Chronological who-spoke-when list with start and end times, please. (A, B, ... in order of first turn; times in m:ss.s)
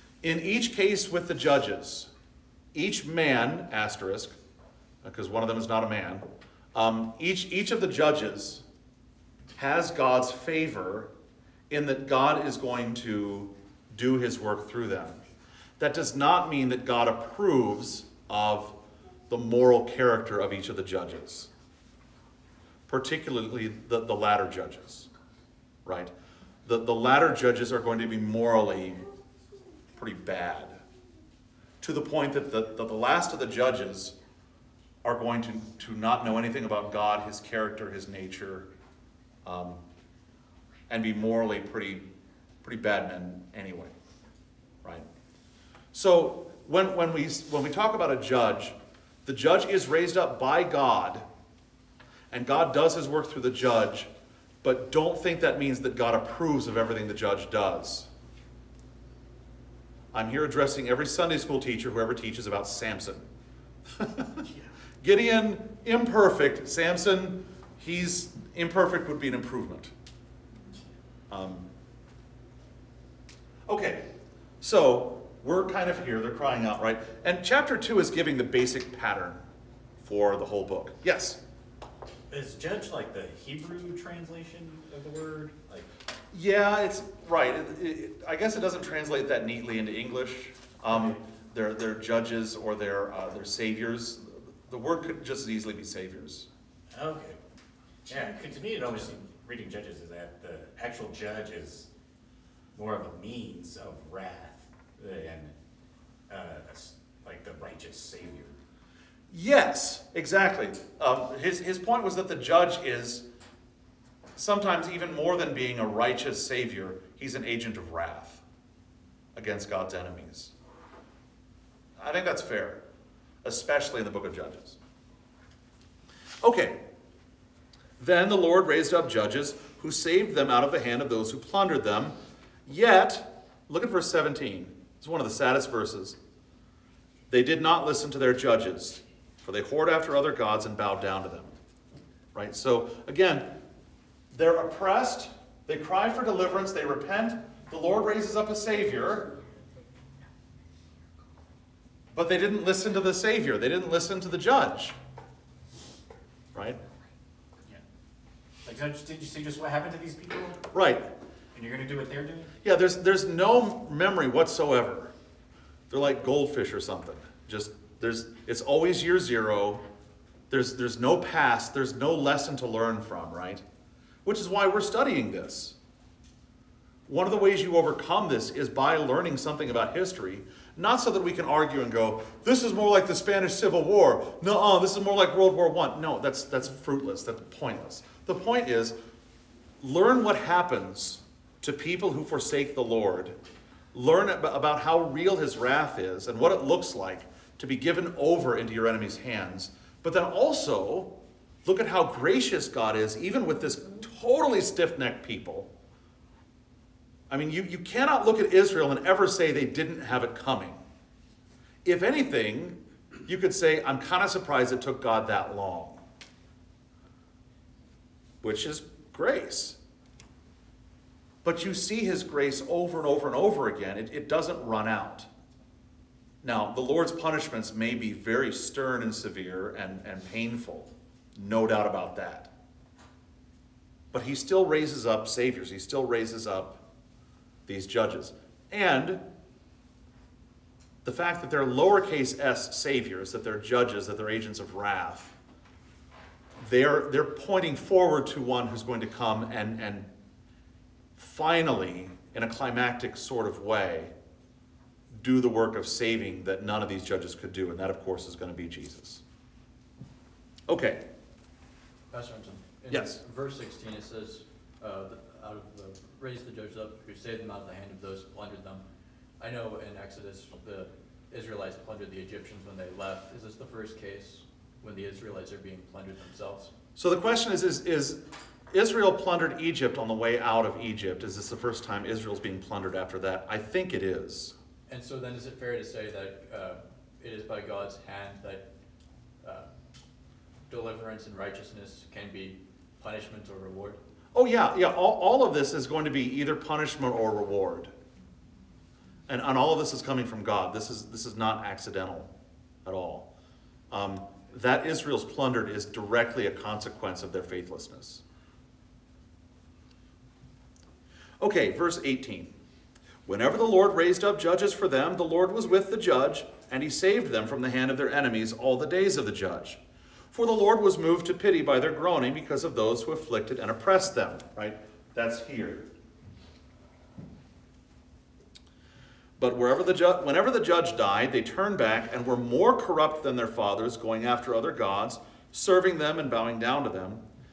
0:00.2-0:02.1 A
0:02.7-0:04.3 A
0:05.0-0:08.6 A
0:09.6-0:11.1 A
0:11.7-0:15.2 A
0:15.8-0:18.8 A
0:19.3-0:21.5 A
0:22.9-0:25.1 A
0:25.8-0:26.1 A
0:26.6-0:29.0 A
0:29.9-0:30.8 A
0:31.8-0:34.2 A
0:35.0-0:38.7 A
0:39.4-0:39.8 A
0:40.9-0:42.1 A
0:42.6-0:43.9 A
0:45.9-0:51.2 A
0:52.3-0:54.1 A
0:54.6-0:58.1 A
1:00.1-1:03.2 A
1:03.9-1:04.5 A
1:05.0-1:09.9 A
1:11.3-1:11.7 A
1:13.7-1:19.4 A
1:20.0-1:21.4 A
1:22.3-1:25.9 B
1:26.3-1:36.5 A
1:30.9-1:31.2 B
1:36.9-1:37.4 B
1:38.1-1:41.9 B
1:42.7-1:45.5 B
1:46.3-1:48.5 B
1:49.3-1:53.3 A
1:54.4-1:58.4 A
1:59.3-2:00.5 A
2:02.0-2:02.8 A
2:03.4-2:04.8 A
2:06.4-2:06.8 A
2:08.0-2:12.1 A
2:12.7-2:16.2 A
2:17.3-2:21.5 A
2:22.3-2:23.6 A
2:24.3-2:29.3 A
2:32.1-2:34.9 A
2:36.5-2:36.8 A
2:38.6-2:40.6 B
2:40.7-2:41.1 A
2:41.5-2:42.5 B
2:42.6-2:45.1 A
2:45.9-2:49.8 A
2:50.5-2:53.6 A
2:54.2-2:55.8 A
2:57.1-3:09.0 A
3:09.8-3:13.4 A
3:13.9-3:25.7 A
3:27.3-3:30.8 A
3:31.8-3:36.0 A
3:38.4-3:39.8 A
3:41.4-3:45.3 A
3:46.4-3:52.5 A
3:54.1-3:56.8 A
3:57.7-3:59.2 A
4:01.0-4:05.3 A
4:06.6-4:10.1 A
4:11.2-4:14.1 A
4:15.1-4:19.2 A
4:20.7-4:21.0 A
4:22.1-4:28.8 C
4:22.9-4:23.2 A
4:29.4-4:36.7 C
4:37.0-4:44.5 A
4:44.9-4:48.7 C
4:49.4-4:49.7 C
4:50.7-4:54.0 C
4:54.3-4:57.9 A
4:59.3-5:02.3 A
5:02.8-5:03.3 A
5:03.9-5:08.2 A
5:11.4-5:12.5 A
5:13.2-5:25.9 A
5:29.4-5:37.2 A